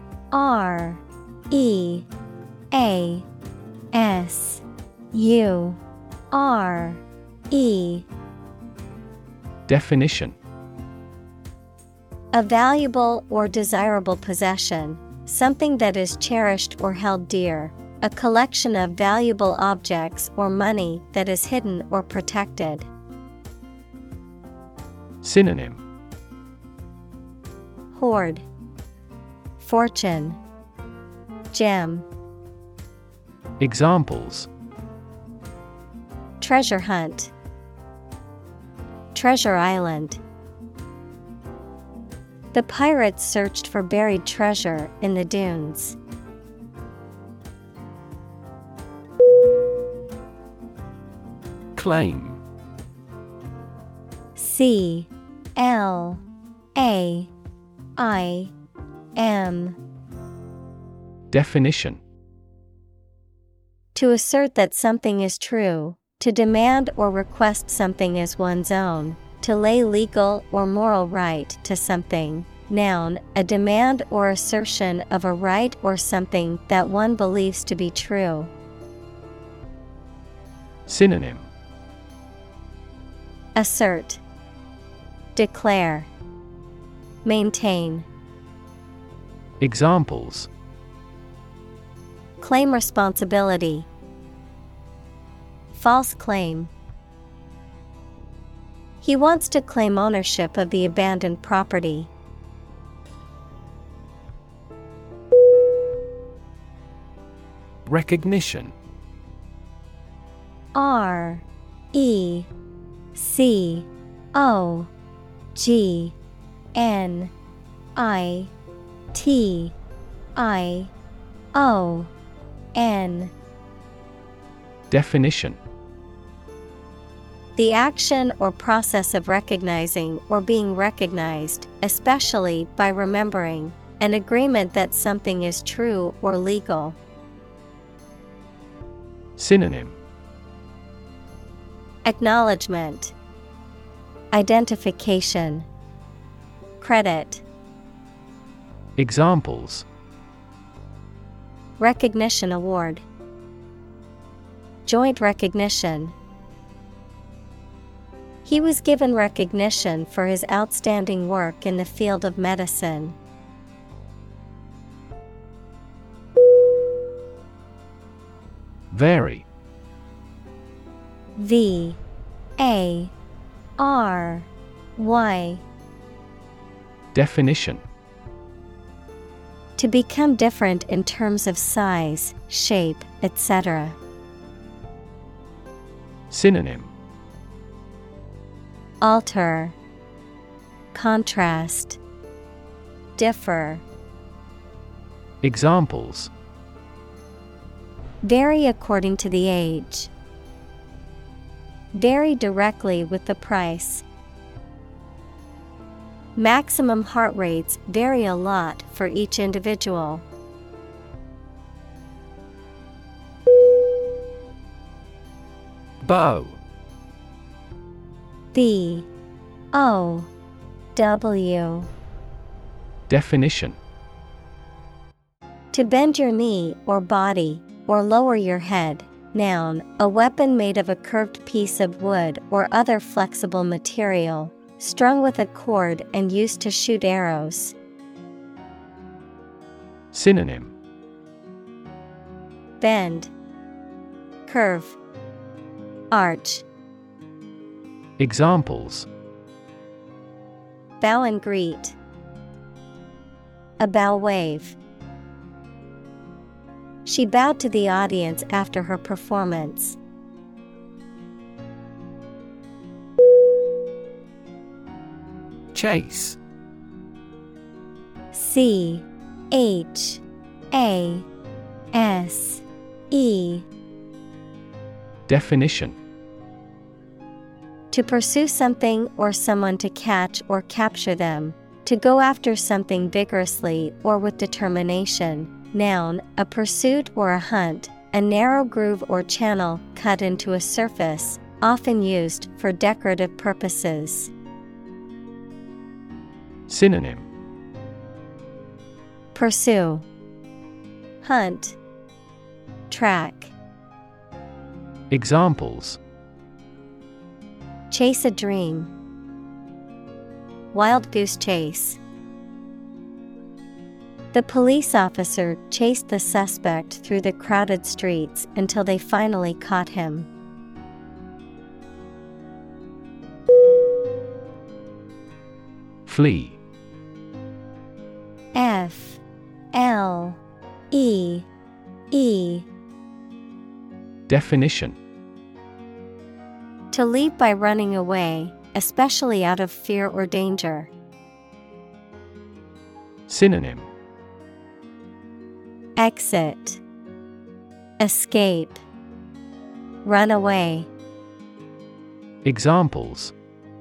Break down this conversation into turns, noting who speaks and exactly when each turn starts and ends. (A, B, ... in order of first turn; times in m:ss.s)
0:00.3-0:02.1 A
0:02.7-0:03.3 A
0:03.9-0:05.8 A
0:06.3-0:08.1 A
0:09.7-0:10.4 B
0:12.3-0:22.9 A
0:25.2-0:25.8 B
0:27.9-0:28.4 A
0:29.6-0:30.4 A
0:31.5-0:32.1 A
0:33.6-0:34.5 B
0:36.4-0:37.3 A
0:39.1-0:40.2 A
0:42.5-0:46.0 A
0:51.8-0:52.4 B
0:54.4-0:56.2 A
0:56.8-0:57.3 A
0:58.0-0:58.5 A
0:59.2-0:59.8 A
1:01.3-1:02.0 B
1:04.0-1:18.5 A
1:20.9-1:21.5 B
1:23.6-1:24.2 A
1:25.4-1:26.1 A
1:27.2-1:28.1 A
1:29.6-1:30.5 B
1:32.4-1:33.9 A
1:35.7-1:36.7 A
1:39.0-1:42.1 A
1:47.9-1:48.7 B
1:50.8-1:52.5 A
1:53.2-1:54.9 A
1:55.6-1:56.2 A
1:56.8-1:57.3 A
1:58.0-1:58.5 A
1:59.1-1:59.8 A
2:00.4-2:00.9 A
2:01.5-2:02.1 A
2:02.8-2:03.3 A
2:04.9-2:05.6 B
2:07.6-2:17.0 A
2:19.4-2:20.0 B
2:22.0-2:23.2 A
2:24.3-2:25.7 A
2:26.8-2:27.4 A
2:29.0-2:29.9 B
2:31.8-2:33.1 A
2:34.8-2:36.2 A
2:38.4-2:43.2 A
2:48.9-2:49.5 B
2:51.4-2:52.0 A
2:52.6-2:53.1 A
2:53.8-2:55.6 A
2:57.1-2:57.8 B
2:59.8-3:04.0 A
3:06.3-3:06.9 B
3:09.0-3:09.8 A
3:10.9-3:12.0 A
3:13.2-3:13.8 A
3:15.4-3:16.3 B
3:18.2-3:20.1 A
3:21.9-3:24.0 A
3:26.4-3:30.3 A
3:36.0-3:36.6 B
3:38.5-3:39.1 A
3:39.7-3:40.3 A
3:41.0-3:41.9 A
3:43.1-3:43.8 B
3:45.7-3:57.8 A
4:00.1-4:00.7 B
4:02.8-4:03.3 A
4:04.5-4:05.0 A
4:06.1-4:06.7 A
4:08.2-4:09.1 B
4:11.0-4:12.0 A
4:13.8-4:14.8 A
4:17.0-4:20.0 A
4:25.7-4:26.4 B
4:28.3-4:31.3 A
4:31.9-4:33.7 A
4:35.3-4:36.0 B
4:37.9-4:54.3 A
4:56.7-4:57.3 B
4:59.3-5:00.1 A
5:01.2-5:01.8 A
5:02.9-5:03.5 A
5:05.1-5:06.0 B
5:07.9-5:08.9 A
5:10.7-5:12.0 A
5:14.3-5:20.3 A
5:26.1-5:26.6 B
5:28.5-5:29.2 A
5:29.7-5:31.5 A
5:32.1-5:32.7 A
5:34.3-5:35.0 B
5:36.9-5:40.9 A
5:43.3-5:43.9 B
5:46.0-5:46.8 A
5:48.0-5:48.8 A
5:50.0-5:50.9 A
5:52.4-5:53.3 B